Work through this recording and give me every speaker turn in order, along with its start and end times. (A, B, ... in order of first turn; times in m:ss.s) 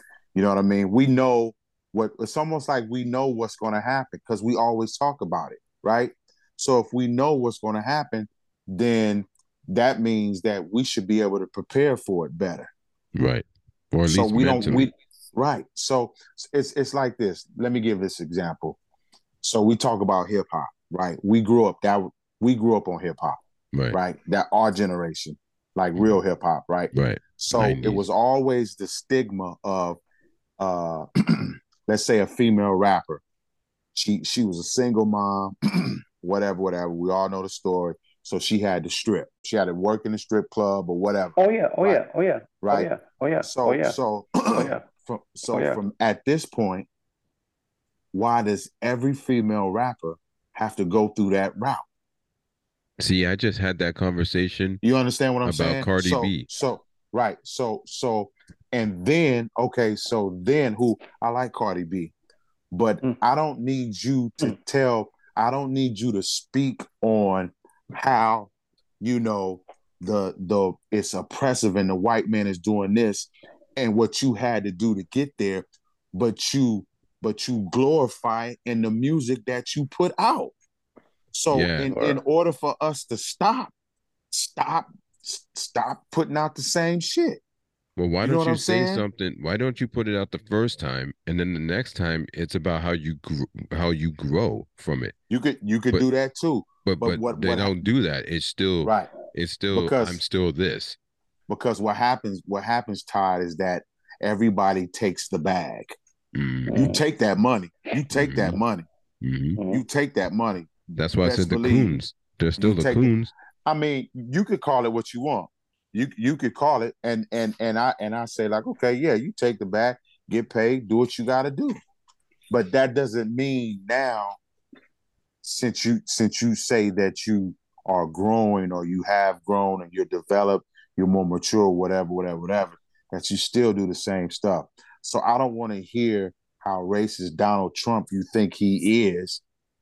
0:00.4-0:12.7 A
0:13.1-0:14.9 B
0:14.1-0:18.8 A
0:19.4-0:23.4 A
0:23.7-0:24.0 B
0:23.9-0:30.0 A
0:26.0-0:26.2 B
0:26.9-0:28.0 B
0:30.6-0:33.2 A
0:33.9-0:42.0 A
0:41.4-0:44.0 C
0:42.6-0:42.9 A
0:43.4-0:46.9 A
0:44.5-0:44.8 C
0:45.5-0:45.8 C
0:48.1-0:51.8 A
0:53.0-0:54.8 B
0:54.8-1:02.1 A
0:55.4-0:56.5 B
1:02.7-1:20.5 A
1:21.3-1:23.7 A
1:21.5-1:21.9 B
1:21.9-1:22.2 C
1:24.3-1:27.4 A
1:28.0-1:35.1 B
1:28.2-1:29.1 A
1:35.3-1:37.7 A
1:36.8-1:41.0 B
1:38.8-1:39.1 A
1:39.7-1:40.2 A
1:41.5-1:45.9 A
1:46.3-1:46.8 B
1:46.7-1:47.0 C
1:46.7-1:48.9 A
1:48.1-1:48.6 B
1:49.2-1:49.6 B
1:49.6-1:49.8 C
1:49.7-1:52.0 A
1:51.0-1:53.3 B
1:52.6-1:53.1 A
1:53.6-2:01.8 A
2:02.5-2:04.4 A
2:05.4-2:19.4 A